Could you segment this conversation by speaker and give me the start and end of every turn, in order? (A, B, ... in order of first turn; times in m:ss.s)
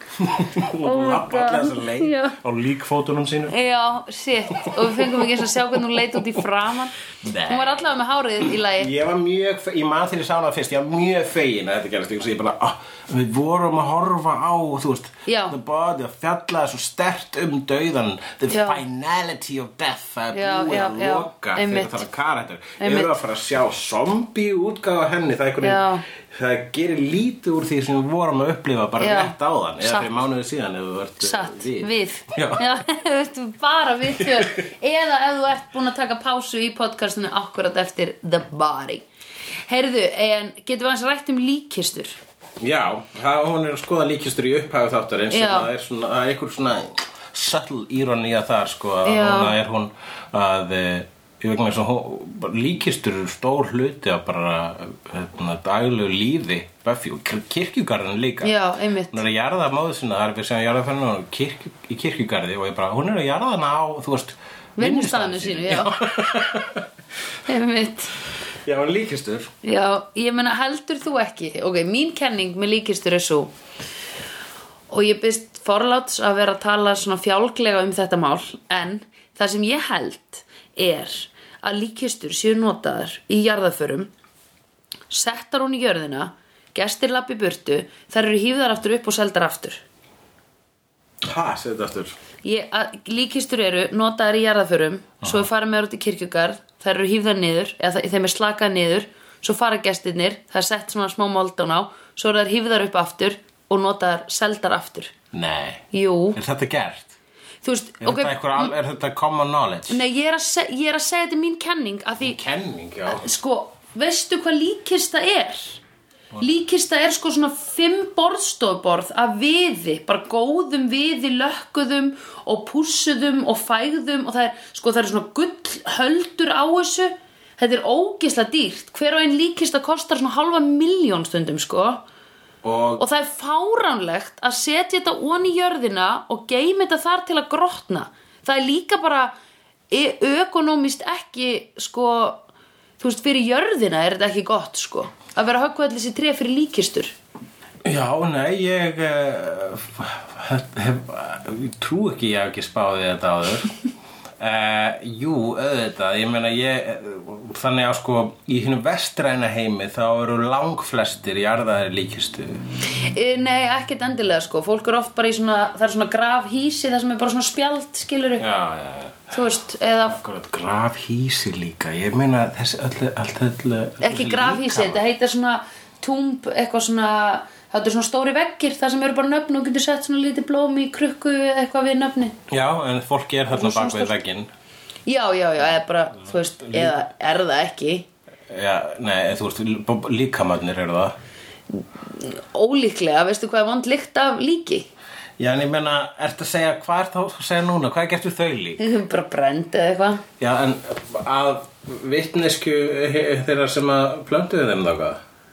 0:00.2-0:03.5 A
0:00.8-0:02.4 B
0:03.5-0:07.0 B
0:04.5-0:06.4 A
0:07.2-0:32.6 A
0:07.5-0:08.9 B
0:15.3-0:15.6 B
0:18.5-0:18.8 B
0:20.3-0:22.1 B
0:22.8-0:23.2 B
0:25.6-0:26.0 B
0:29.0-0:30.2 B
0:31.2-0:39.0 B
0:34.2-0:34.5 A
0:39.7-0:42.2 B
0:42.6-0:58.6 A
0:45.3-0:45.7 B
0:49.0-0:49.6 B
0:58.4-0:59.2 B
0:59.1-1:06.9 A
1:04.8-1:06.0 B
1:07.5-1:08.1 B
1:08.6-1:09.5 A
1:09.6-1:13.5 B
1:14.9-1:24.1 B
1:25.1-1:29.8 B
1:31.2-1:32.2 A
1:32.4-1:45.1 B
1:35.2-1:35.5 A
1:45.3-1:47.2 A
1:45.9-1:46.4 B
1:47.6-1:48.7 B
1:48.0-1:50.0 A
1:49.9-1:52.4 B
1:52.2-1:53.3 A
1:53.1-1:55.8 B
1:56.4-2:12.0 B
2:12.6-2:13.0 A
2:13.0-2:19.4 B
2:19.9-2:22.4 B
2:23.0-2:27.1 B
2:27.8-2:33.7 A
2:34.4-2:42.6 A
2:42.9-2:48.4 B
2:48.4-2:49.4 A
2:49.3-2:50.2 B
2:50.1-2:55.0 A
2:54.0-3:02.4 B
3:02.5-3:04.5 A
3:03.5-3:04.2 B
3:05.1-3:08.1 B
3:06.3-3:07.0 A
3:08.5-3:11.1 A
3:11.7-3:14.9 B
3:15.4-3:18.8 A
3:18.8-3:20.2 B
3:20.4-3:25.2 A